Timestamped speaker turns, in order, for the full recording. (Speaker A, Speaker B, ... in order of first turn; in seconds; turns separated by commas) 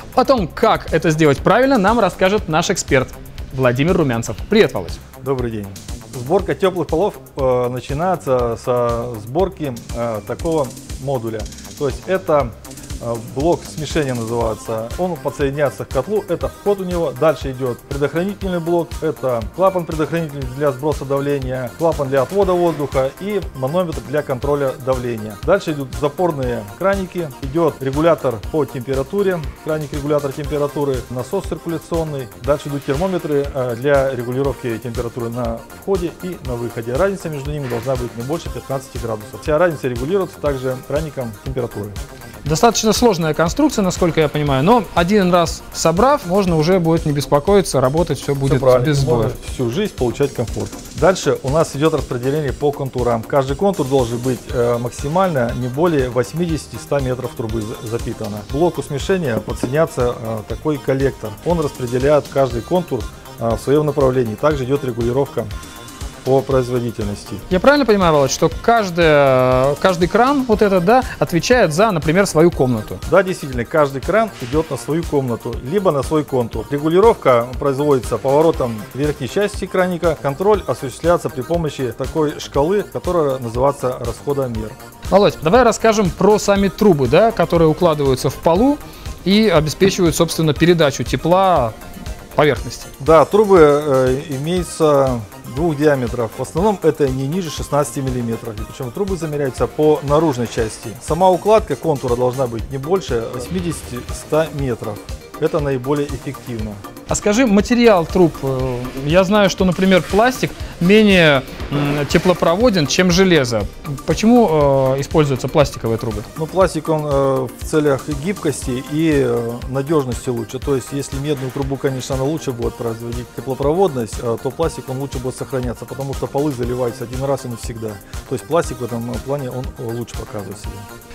Speaker A: 0.1-5.0, Speaker B: 5.2-42.0, Speaker A: 42.5-49.3, Speaker B: 48.5-65.5, Speaker B: 66.2-67.5, Speaker A: 67.5-73.0, Speaker B: 73.1-84.8, Speaker A: 85.1-91.8, Speaker A: 92.3-92.9, Speaker B: 93.0-106.8, Speaker A: 107.1-116.3, Speaker B: 116.4-130.9